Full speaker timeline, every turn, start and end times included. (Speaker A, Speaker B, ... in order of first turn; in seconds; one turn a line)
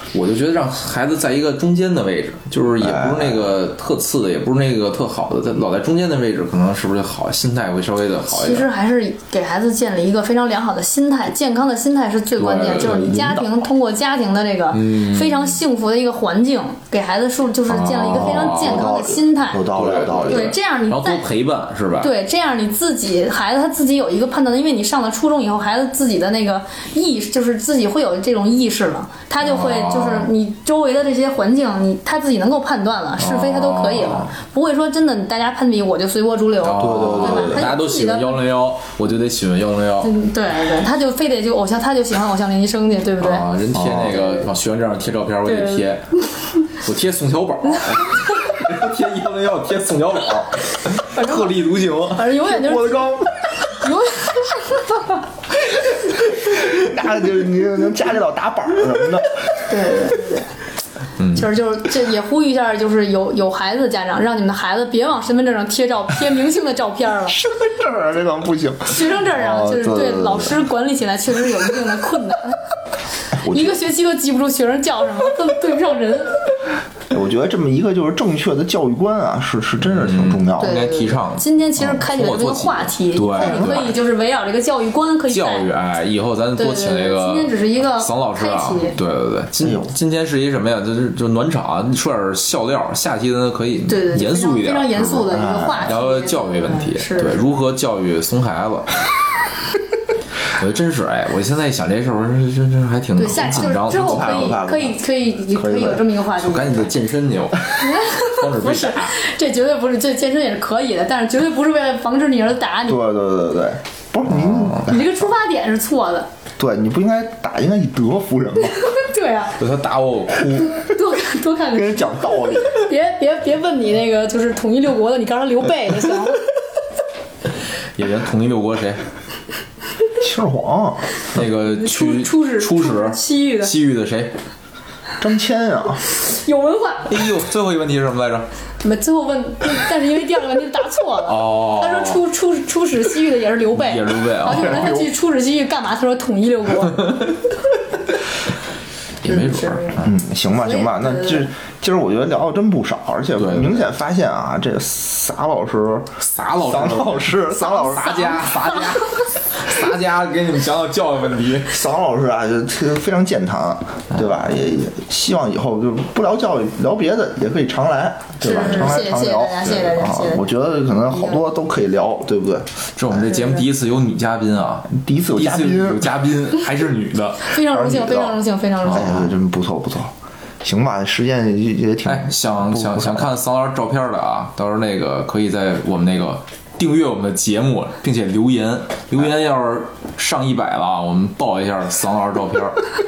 Speaker A: 0.1-8.7
Speaker B: 2.8-3.5
Speaker C: 8.3-19.7
Speaker A: 12.4-13.4
Speaker B: 13.0-13.3
Speaker A: 14.7-15.6
Speaker A: 17.7-18.9
Speaker B: 18.4-20.6
Speaker A: 19.6-22.1
Speaker C: 20.2-21.3
Speaker C: 22.0-38.4
Speaker A: 29.4-30.3
Speaker A: 33.2-34.3
Speaker A: 36.6-40.1
Speaker B: 36.8-37.7
Speaker C: 40.0-43.5
Speaker A: 43.2-52.3
Speaker C: 44.1-44.4
Speaker C: 45.4-45.9
Speaker C: 51.1-55.2
Speaker B: 52.4-53.3
Speaker B: 56.0-59.3
Speaker C: 59.7-60.5
Speaker A: 61.2-61.5
Speaker C: 61.3-67.4
Speaker B: 67.3-70.5
Speaker C: 68.9-72.6
Speaker B: 73.3-73.8
Speaker C: 73.5-76.4
Speaker B: 77.1-80.8
Speaker A: 79.8-83.9
Speaker C: 80.6-85.7
Speaker B: 83.4-83.9
Speaker A: 85.3-95.2
Speaker C: 86.6-88.9
Speaker B: 89.6-89.9
Speaker C: 93.9-97.5
Speaker B: 95.1-95.9
Speaker A: 95.8-98.9
Speaker A: 100.5-104.7
Speaker C: 103.2-106.9
Speaker B: 103.9-104.9
Speaker B: 105.5-106.0
Speaker A: 106.3-109.2
Speaker C: 107.7-113.0
Speaker B: 112.9-115.0
Speaker A: 114.4-114.7
Speaker C: 114.8-116.3
Speaker B: 116.6-118.8
Speaker C: 118.8-119.6
Speaker A: 119.6-120.8
Speaker C: 120.7-126.4
Speaker B: 121.7-122.7
Speaker A: 127.9-129.0
Speaker B: 130.2-131.1
Speaker A: 131.3-134.3
Speaker C: 131.7-133.7
Speaker B: 135.2-136.0
Speaker C: 136.1-137.2
Speaker A: 137.1-138.5
Speaker C: 138.8-147.2
Speaker A: 141.3-142.2
Speaker A: 143.7-145.1
Speaker A: 149.2-150.1
Speaker C: 149.2-150.0
Speaker B: 150.0-156.1
Speaker C: 150.6-151.5
Speaker A: 153.4-153.8
Speaker A: 156.2-161.7
Speaker B: 156.6-158.5
Speaker B: 161.7-172.7
Speaker C: 168.4-170.4
Speaker A: 168.5-168.9
Speaker C: 171.1-171.4
Speaker A: 172.9-177.5
Speaker C: 173.2-173.6
Speaker B: 174.9-176.2
Speaker C: 177.4-179.2
Speaker B: 177.7-178.4
Speaker A: 178.9-179.2
Speaker B: 178.9-183.2
Speaker A: 182.1-192.8